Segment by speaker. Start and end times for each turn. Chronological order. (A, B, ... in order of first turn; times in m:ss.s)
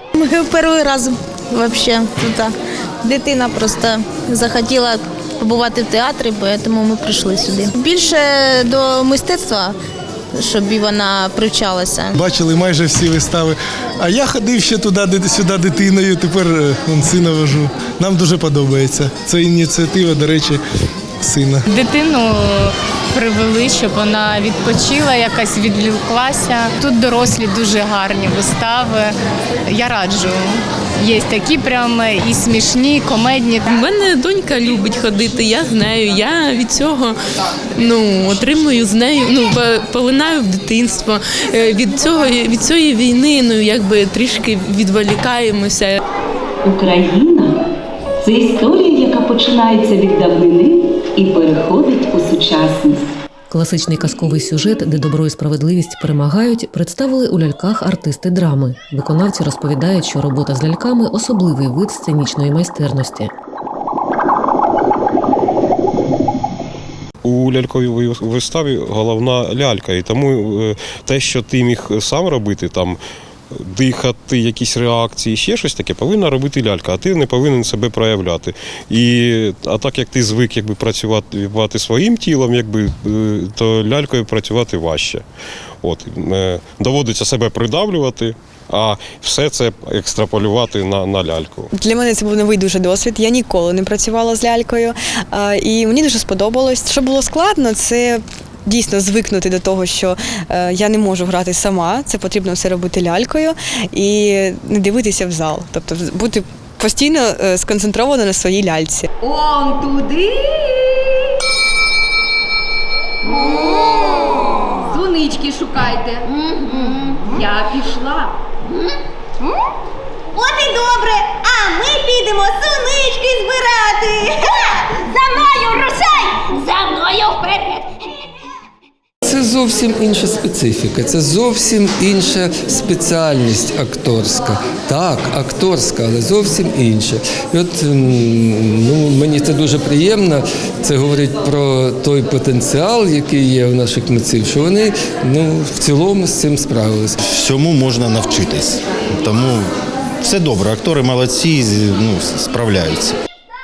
0:00.2-0:02.5 A
0:03.0-0:09.8 A
0:10.4-0:12.1 A
0:12.1-0:20.6 B
0:21.2-0:21.6 B
0:21.7-0:29.1 C
0:29.7-0:30.4 C
0:31.0-0:33.7 C
0:33.7-0:37.2 D
0:37.8-0:46.0 D
0:46.6-0:47.6 E
0:48.2-0:53.1 E
0:53.5-1:03.3 F
1:07.2-1:13.0 G
1:13.6-1:25.2 G
1:25.8-1:31.7 G
1:31.7-1:49.0 H
1:49.3-1:50.2 I
1:54.9-1:56.1 I
1:56.2-1:57.4 J
1:57.4-1:58.3 I
2:00.4-2:04.5 J
2:01.1-2:01.7 I
2:02.4-2:03.3 I
2:05.1-2:07.9 J
2:09.2-2:27.2 K
2:27.3-2:33.2 L